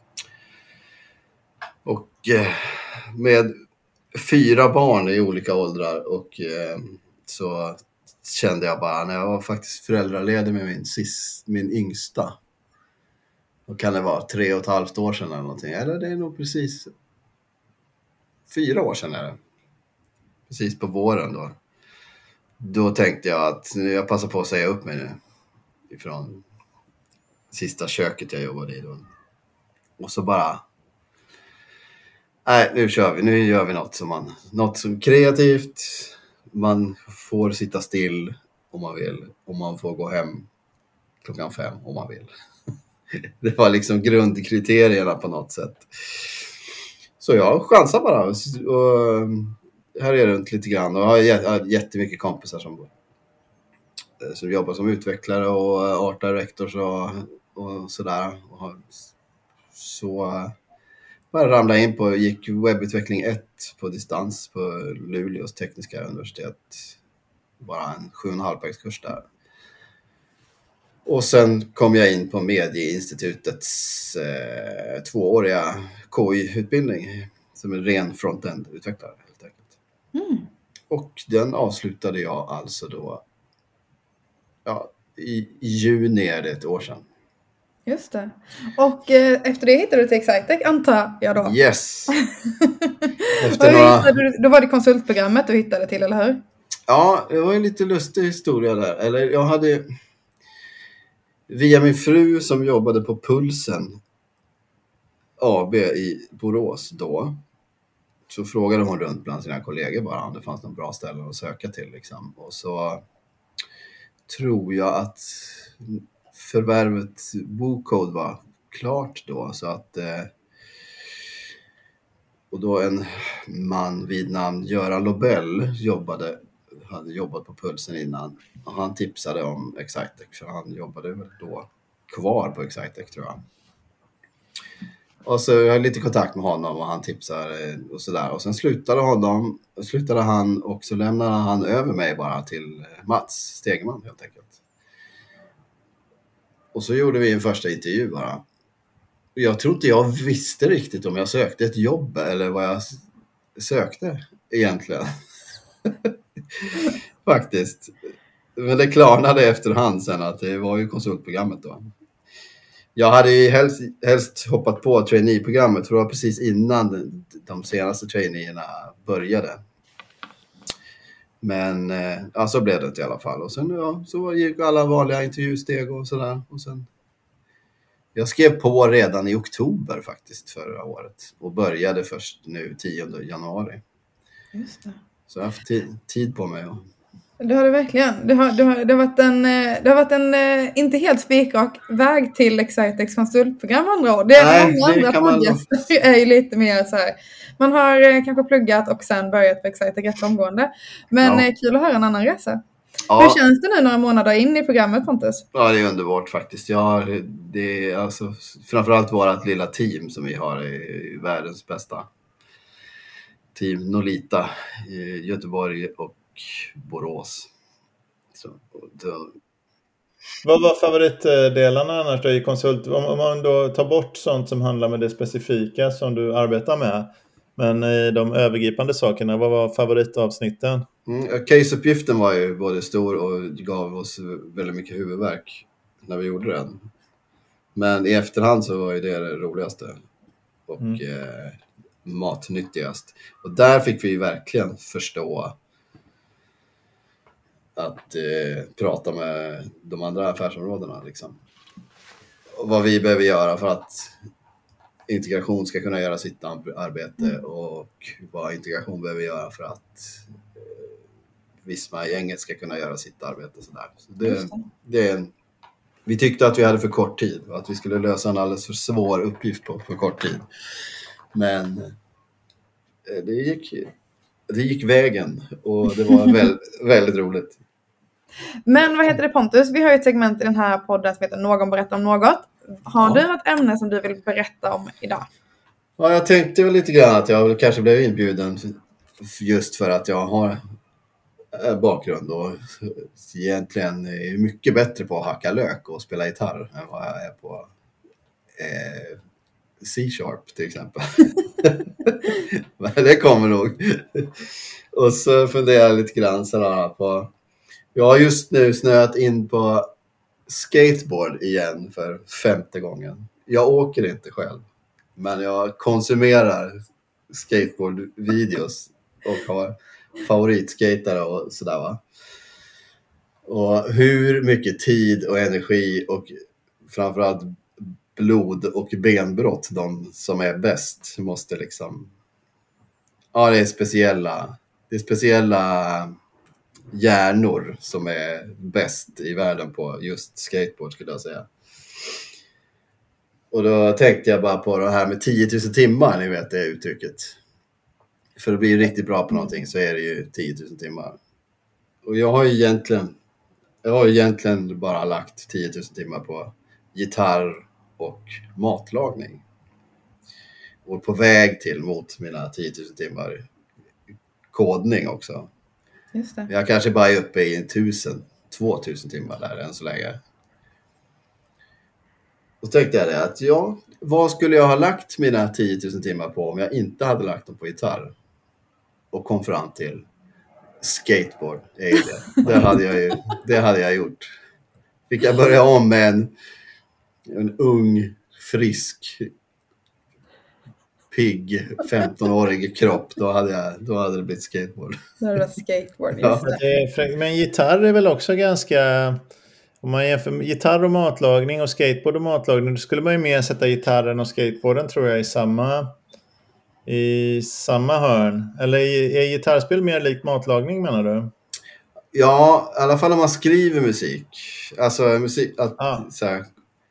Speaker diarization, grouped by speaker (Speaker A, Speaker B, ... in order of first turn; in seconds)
Speaker A: 1.9-3.5, 4.1-12.4, 13.7-16.9, 18.5-19.4, 20.5-21.6, 22.6-25.2, 25.9-26.4, 27.5-29.1, 30.0-30.6, 32.5-40.5, 41.2-42.3, 43.1-46.5, 47.2-52.9, 54.2-59.1, 59.7-60.5, 61.3-67.0, 67.6-69.2, 71.0-79.7, 80.9-83.2, 84.7-87.0, 91.4-92.2, 93.4-94.2, 96.9-99.9, 101.5-104.0, 105.4-107.4, 108.3-113.0, 114.3-120.3, 122.5-133.4, 135.2-144.6, 146.7-148.4, 149.4-153.0, 153.6-155.1, 155.9-158.0, 158.6-161.9, 162.9-169.6, 171.4-176.9, 178.2-183.8, 185.3-186.8, 194.3-195.6, 201.2-201.5, 203.1-203.4, 205.5-212.1, 213.6-217.5, 218.3-219.4, 231.1-236.9, 237.8-240.0, 240.7-245.6, 247.8-251.4, 252.6-254.2, 255.1-260.9, 261.6-265.3, 266.1-270.4, 271.3-271.9, 273.1-273.9, 274.5-277.6, 286.0-290.6, 291.5-297.7, 298.6-299.2, 299.8-307.3, 307.9-309.9, 310.5-314.6, 315.2-316.8, 317.3-322.0, 323.4-326.3, 326.9-332.1, 333.3-336.2, 336.9-341.5, 343.5-347.4, 348.4-351.2, 352.0-353.1, 353.8-359.4, 360.9-363.4, 364.5-365.5, 366.5-370.2, 372.6-378.1, 379.1-380.1, 380.8-384.3, 385.1-386.3, 387.3-389.3, 391.1-395.0, 396.2-396.5, 412.1-416.5
Speaker B: 80.1-80.5, 87.9-91.6, 92.1-96.4, 184.5-185.0, 187.4-202.6, 203.2-205.5, 264.2-264.6, 278.7-285.2, 366.1-366.5, 395.2-396.6
Speaker C: 220.4-230.9, 396.4-399.2, 399.8-405.9, 406.9-411.3, 415.8-416.1